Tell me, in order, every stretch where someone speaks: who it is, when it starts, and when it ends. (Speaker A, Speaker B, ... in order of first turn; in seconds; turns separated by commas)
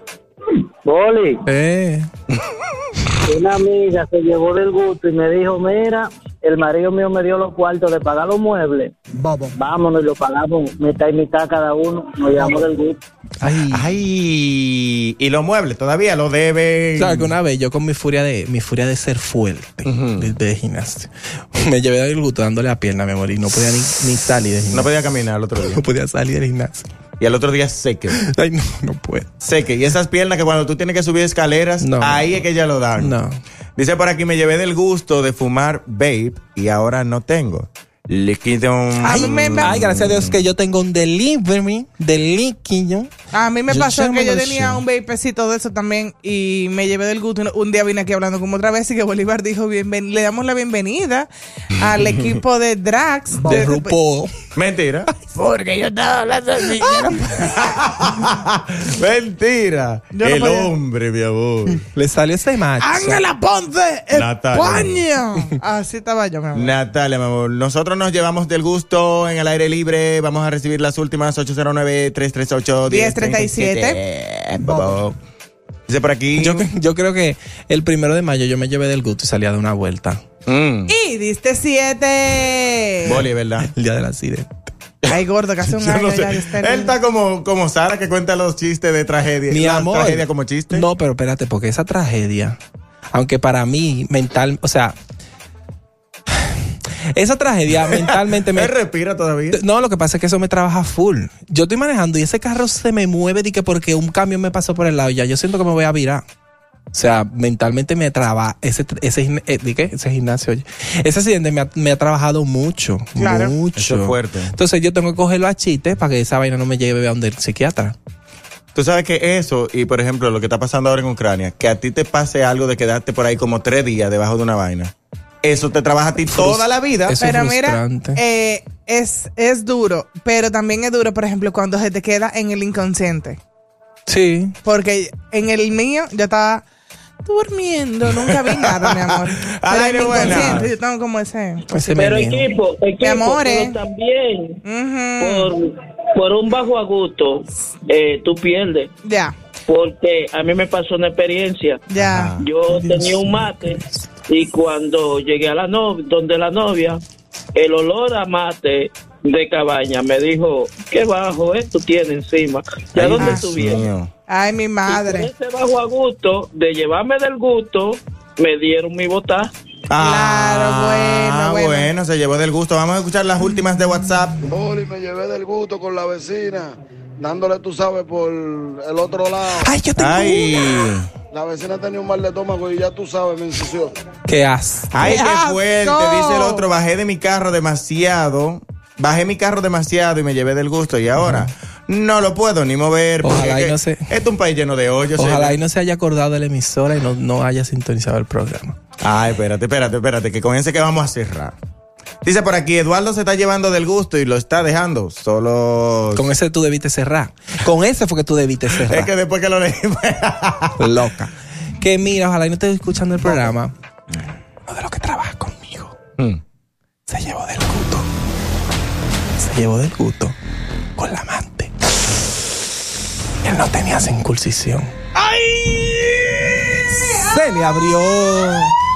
Speaker A: 0.8-1.4, Speaker B: 1.4-2.1, Speaker A: 3.3-8.9, Speaker A: 9.5-13.0, Speaker B: 13.4-13.9, Speaker C: 13.7-17.3, Speaker B: 17.0-24.9, Speaker C: 19.8-20.3, Speaker C: 24.7-25.8, Speaker B: 25.6-26.9, Speaker C: 27.2-28.2, Speaker B: 28.2-29.3, Speaker C: 29.4-33.1, Speaker B: 31.8-32.4, Speaker B: 33.0-33.4, Speaker C: 33.8-40.4, Speaker D: 39.0-39.8, Speaker B: 39.0-43.1, Speaker D: 43.3-53.9, Speaker B: 43.7-44.8, Speaker C: 52.0-52.4, Speaker B: 53.4-54.3, Speaker C: 54.5-55.1, Speaker D: 55.4-57.4, Speaker C: 56.7-61.8, Speaker B: 56.7-57.1, Speaker D: 60.1-60.7, Speaker B: 61.9-63.2, Speaker D: 62.8-66.7, Speaker C: 64.1-65.0, Speaker C: 66.5-75.2, Speaker D: 72.9-74.0, Speaker C: 75.9-76.7, Speaker B: 76.4-80.2, Speaker C: 80.5-80.9, Speaker D: 80.9-83.2, Speaker C: 83.0-83.7, Speaker B: 83.6-84.7, Speaker C: 85.0-90.8, Speaker D: 85.1-86.9, Speaker B: 89.5-92.6, Speaker B: 93.1-95.0, Speaker B: 97.1-98.7, Speaker C: 97.7-99.6, Speaker B: 99.5-106.2, Speaker B: 106.9-118.0, Speaker D: 113.2-113.5, Speaker C: 113.8-114.5, Speaker C: 118.7-127.2, Speaker B: 126.3-128.2, Speaker D: 127.2-133.4, Speaker B: 134.1-134.6, Speaker D: 134.6-136.6, Speaker D: 137.2-141.6, Speaker C: 138.1-140.7, Speaker B: 141.7-142.5, Speaker E: 141.9-144.6, Speaker D: 143.0-143.7, Speaker D: 144.6-145.5, Speaker E: 145.2-148.9, Speaker D: 149.0-149.3, Speaker E: 149.7-151.8, Speaker D: 151.9-152.4, Speaker C: 152.0-152.4, Speaker E: 152.4-157.0, Speaker B: 152.7-154.0, Speaker E: 157.6-163.8, Speaker C: 162.9-164.1, Speaker D: 163.2-165.3, Speaker E: 164.9-169.5, Speaker C: 169.9-174.4, Speaker D: 170.0-171.9, Speaker F: 174.4-179.7, Speaker B: 179.6-180.9, Speaker C: 180.0-181.1, Speaker F: 181.3-183.9, Speaker B: 184.3-185.0, Speaker C: 184.9-195.6, Speaker D: 185.0-186.7, Speaker B: 191.2-191.5, Speaker B: 193.2-194.1, Speaker B: 195.2-198.8, Speaker C: 199.0-201.6, Speaker C: 202.2-206.2, Speaker B: 206.1-209.1, Speaker C: 208.7-210.9, Speaker B: 210.8-213.7, Speaker C: 213.2-213.5, Speaker B: 214.7-215.9, Speaker B: 217.1-218.1, Speaker B: 219.4-220.4, Speaker B: 221.0-221.7, Speaker B: 223.4-224.9, Speaker B: 227.0-228.7